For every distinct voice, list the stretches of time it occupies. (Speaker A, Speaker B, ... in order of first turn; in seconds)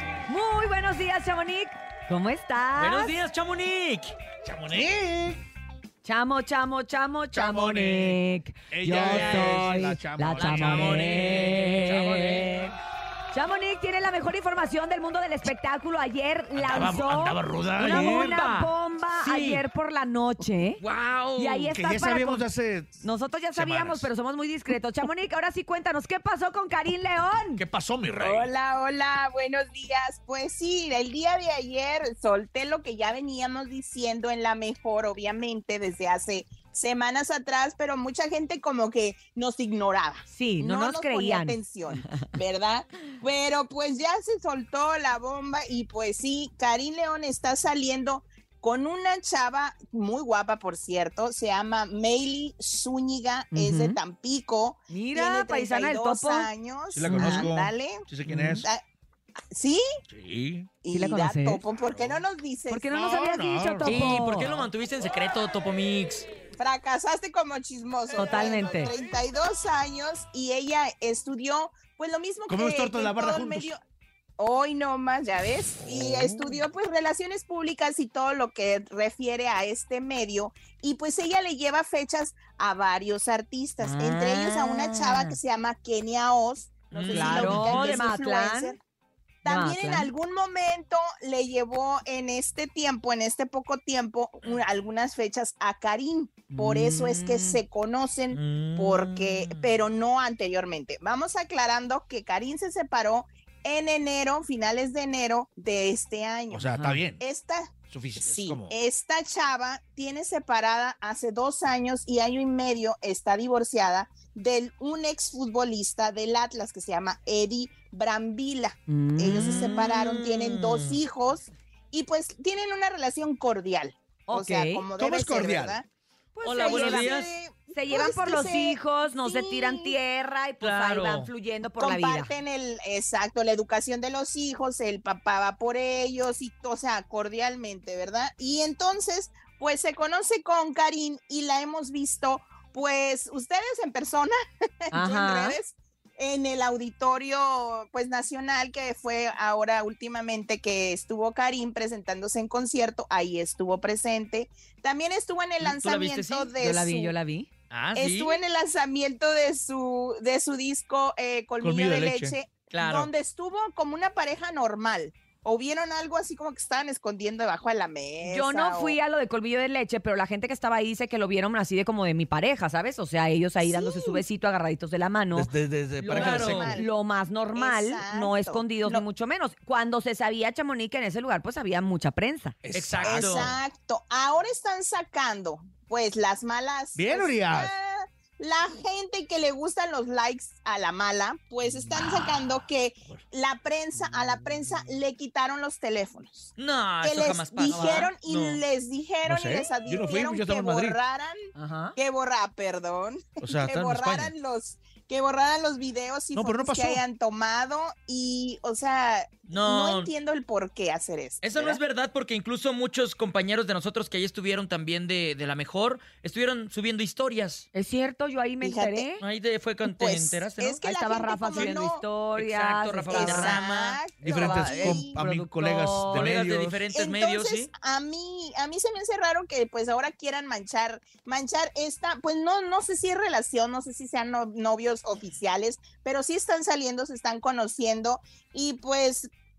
Speaker A: 0.3-3.2, 6.0-12.7, 13.3-20.8, 21.4-22.5, 23.0-27.6, 40.3-42.2, 53.5-54.0, 54.9-56.5, 57.0-57.5, 58.3-58.6, 60.9-61.6, 62.7-64.6, 68.1-68.9, 83.8-85.3, 87.1-88.8, 89.4-90.1, 96.5-97.6, 106.7-107.0, 118.9-119.5, 124.3-124.8, 126.3-127.1, 127.7-132.3, 144.9-145.6, 156.6-157.5, 168.2-175.5, 176.7-182.6, 197.7-198.1, 201.5-201.9, 217.7-219.2, 220.8-223.6, 224.2-226.3
Speaker B: 2.8-4.1, 8.9-9.8, 10.3-12.7, 17.8-19.6, 20.8-21.7, 63.8-66.3, 86.9-88.0, 98.3-99.8, 119.2-121.0, 126.4-127.3, 130.6-131.3, 155.6-156.5, 157.7-158.4, 162.7-163.1, 176.0-176.8, 182.7-183.6, 196.6-198.6, 209.5-210.1, 211.4-217.7, 219.2-220.8, 222.3-224.0, 226.1-227.7
Speaker C: 4.4-5.4, 7.3-8.2, 8.7-11.3, 16.6-18.4, 21.7-22.9, 23.5-24.1, 27.6-28.5, 56.9-58.6, 60.1-60.7, 62.9-64.4, 72.5-73.7, 106.5-107.2, 107.9-108.7, 125.0-125.8, 161.6-162.3, 175.3-176.7, 182.6-183.6, 186.9-187.7, 191.9-192.3, 199.2-201.0, 203.4-204.3, 206.3-207.0, 224.2-226.8
Speaker D: 28.2-58.8, 59.5-59.8, 60.8-62.9, 66.6-73.8, 74.4-88.8, 89.4-106.7, 107.2-125.8, 126.6-130.0, 131.8-144.3, 144.9-157.1, 157.9-169.0, 173.6-174.2, 176.0-176.9, 177.5-179.0, 183.0-201.4, 202.0-211.8, 218.6-219.1, 219.8-222.0, 223.1-225.2, 226.9-239.3